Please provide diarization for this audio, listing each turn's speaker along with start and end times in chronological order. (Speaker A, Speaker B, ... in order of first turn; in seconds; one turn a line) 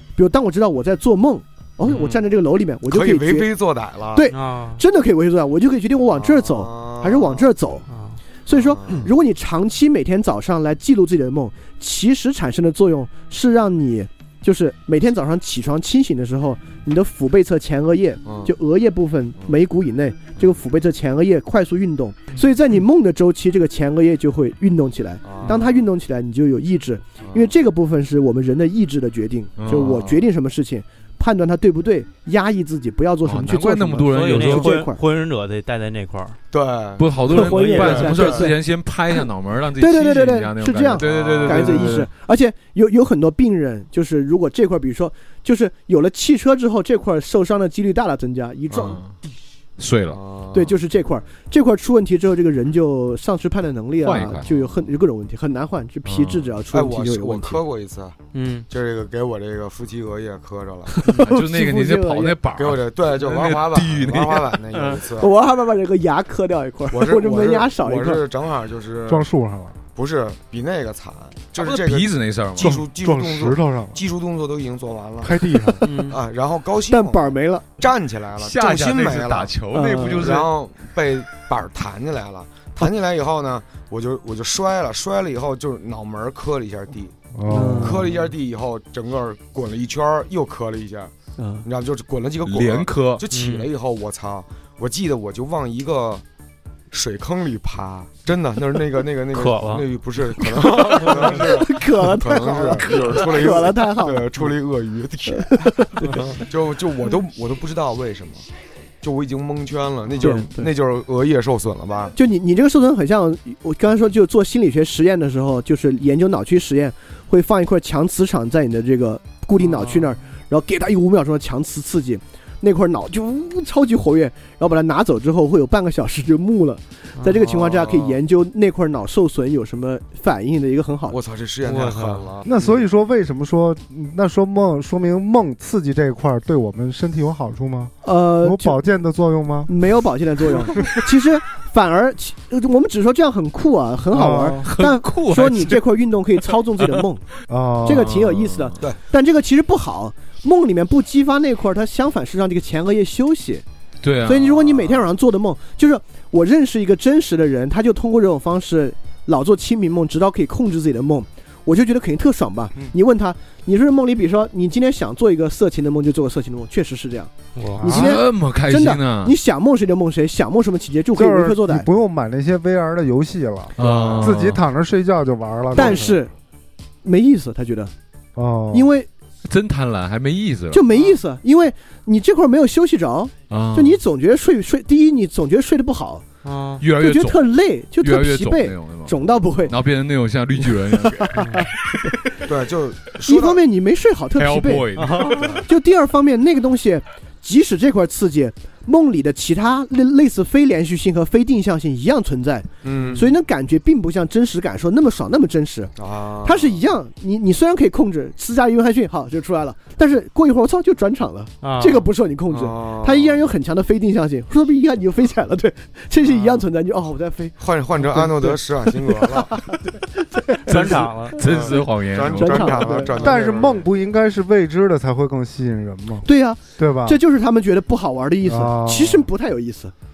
Speaker A: 0.1-3.5
Speaker B: 1.9-2.1
Speaker C: 1.9-2.1
Speaker C: 2.9-4.3
Speaker A: 4.1-7.8
Speaker B: 4.3-4.8
Speaker C: 6.2-7.5
Speaker B: 7.9-8.2
Speaker A: 8.4-35.0
Speaker C: 8.5-9.1
Speaker C: 18.2-18.5
Speaker C: 25.2-25.7
Speaker C: 27.2-27.5
Speaker D: 29.6-30.1
Speaker D: 33.2-34.9
Speaker B: 34.1-36.4
Speaker C: 36.5-38.5
Speaker D: 37.0-42.1
Speaker A: 37.3-38.6
Speaker B: 37.4-38.2
Speaker A: 39.8-49.0
Speaker C: 41.0-41.8
Speaker D: 48.8-49.1
Speaker D: 49.8-50.2
Speaker C: 50.1-50.8
Speaker A: 50.5-57.6
Speaker D: 54.0-54.5
Speaker C: 56.7-58.2
Speaker B: 58.3-58.6
Speaker C: 58.7-61.1
Speaker A: 60.9-62.4
Speaker D: 61.0-65.0
Speaker C: 62.5-65.3
Speaker A: 65.2-68.2
Speaker C: 66.9-69.3
Speaker E: 69.1-69.8
Speaker C: 70.0-79.5
Speaker D: 71.5-72.8
Speaker E: 72.6-74.0
Speaker E: 75.2-75.8
Speaker B: 75.8-76.2
Speaker A: 76.9-77.7
Speaker D: 78.4-80.5
Speaker A: 79.7-80.3
Speaker C: 80.1-87.2
Speaker E: 87.3-88.0
Speaker A: 87.5-88.1
Speaker C: 87.7-91.1
Speaker A: 91.4-91.7
Speaker C: 91.6-96.2
Speaker D: 92.4-93.2
Speaker B: 93.3-93.7
Speaker C: 96.9-108.5
Speaker B: 99.3-99.8
Speaker A: 100.4-104.3
Speaker A: 105.3-106.2
Speaker C: 109.0-112.1
Speaker A: 110.2-110.7
Speaker A: 112.1-131.2
Speaker B: 119.6-120.1
Speaker C: 127.4-128.2
Speaker C: 131.1-132.8
Speaker B: 131.6-132.3
Speaker E: 132.4-139.7
Speaker A: 138.0-138.8
Speaker A: 139.7-147.2
Speaker E: 144.1-144.7
Speaker D: 144.6-145.8
Speaker D: 146.8-147.0
Speaker E: 147.5-148.1
Speaker A: 147.8-153.6
Speaker D: 148.0-148.8
Speaker D: 154.0-154.9
Speaker A: 154.2-171.9
Speaker B: 167.6-167.8
Speaker D: 167.8-169.3
Speaker E: 167.8-168.2
Speaker E: 171.1-176.1
Speaker D: 173.8-174.6
Speaker C: 173.8-174.4
Speaker A: 175.7-176.3
Speaker A: 177.0-177.9
Speaker E: 178.3-178.9
Speaker A: 178.7-179.1
Speaker D: 179.4-180.8
Speaker A: 180.7-186.2
Speaker B: 180.9-181.2
Speaker D: 183.5-184.0
Speaker B: 186.4-186.8
Speaker D: 186.8-191.6
Speaker A: 186.9-189.7
Speaker A: 190.9-192.1
Speaker C: 192.4-193.6
Speaker A: 193.2-205.9
Speaker D: 194.3-195.6
Speaker B: 195.0-195.6
Speaker C: 202.8-203.3
Speaker B: 202.9-203.2
Speaker C: 206.0-206.8
Speaker A: 206.4-221.1
Speaker B: 211.6-212.1
Speaker C: 212.5-213.4
Speaker C: 216.2-216.6
Speaker C: 217.6-219.5
Speaker B: 220.7-221.4
Speaker D: 220.7-222.9
Speaker C: 221.4-223.9
Speaker A: 222.3-223.2
Speaker E: 223.1-227.2
Speaker A: 226.2-229.9
Speaker E: 228.4-229.3